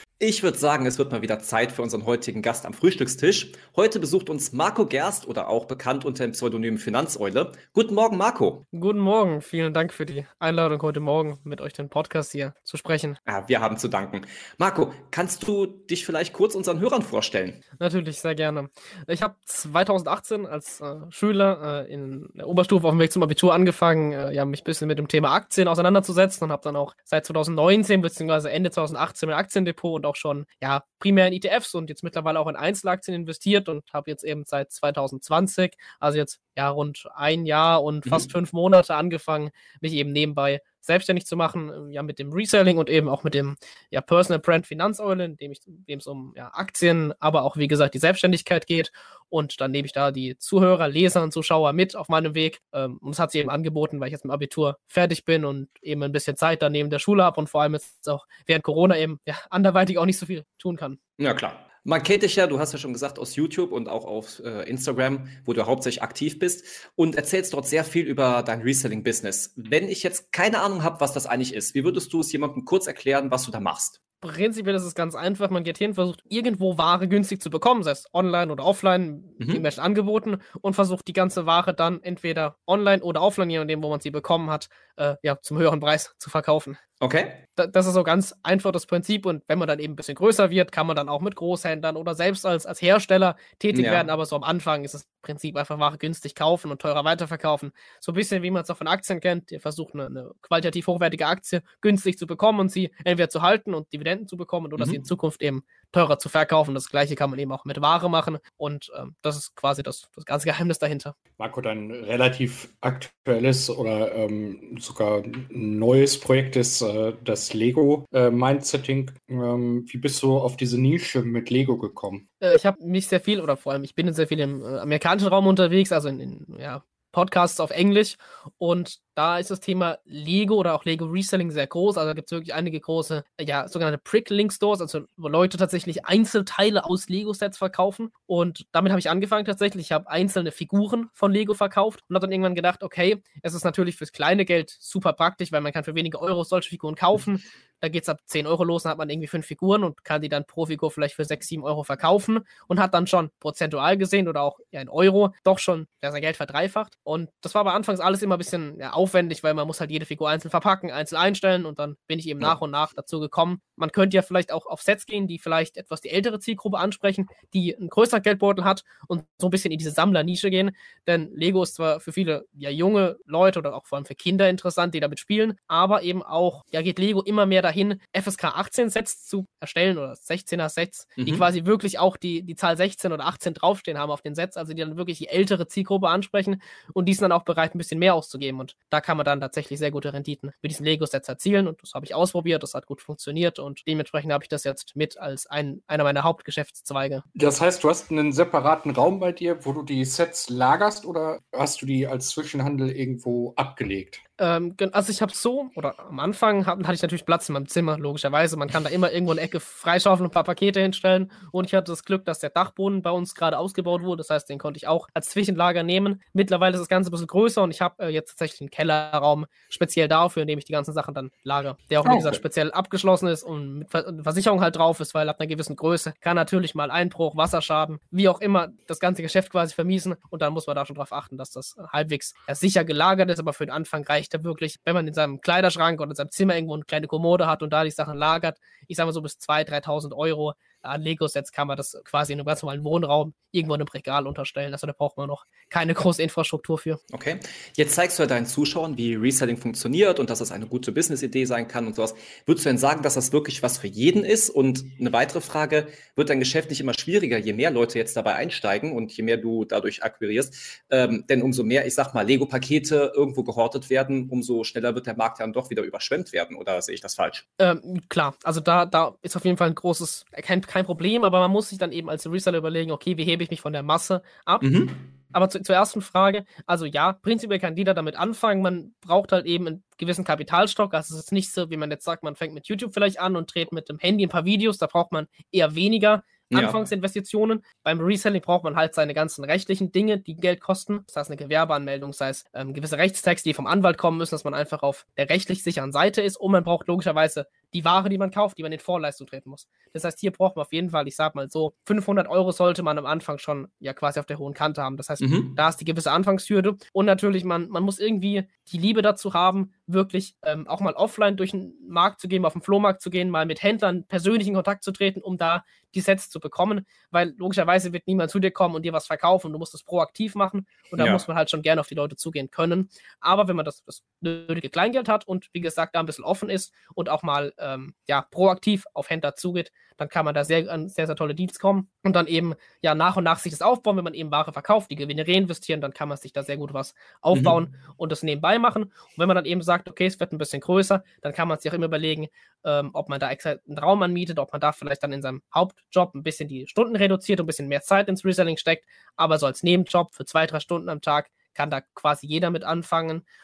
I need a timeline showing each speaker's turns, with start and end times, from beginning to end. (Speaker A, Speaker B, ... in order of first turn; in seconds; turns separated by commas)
Speaker A: 0.2-8.6, Speaker B: 8.7-13.2, Speaker A: 13.2-17.6, Speaker B: 17.8-61.0, Speaker A: 61.2-74.0, Speaker B: 74.2-86.8, Speaker A: 87.0-87.4, Speaker B: 87.6-111.1, Speaker A: 93.7-94.1, Speaker C: 111.4-122.2, Speaker B: 122.4-197.2, Speaker A: 181.2-181.4, Speaker C: 197.3-204.2, Speaker B: 204.4-247.0, Speaker C: 222.0-222.4, Speaker A: 247.1-267.4, Speaker B: 267.6-274.8, Speaker A: 274.6-275.0, Speaker B: 275.3-353.2, Speaker A: 286.5-286.8, Speaker A: 305.2-305.5, Speaker A: 320.9-321.2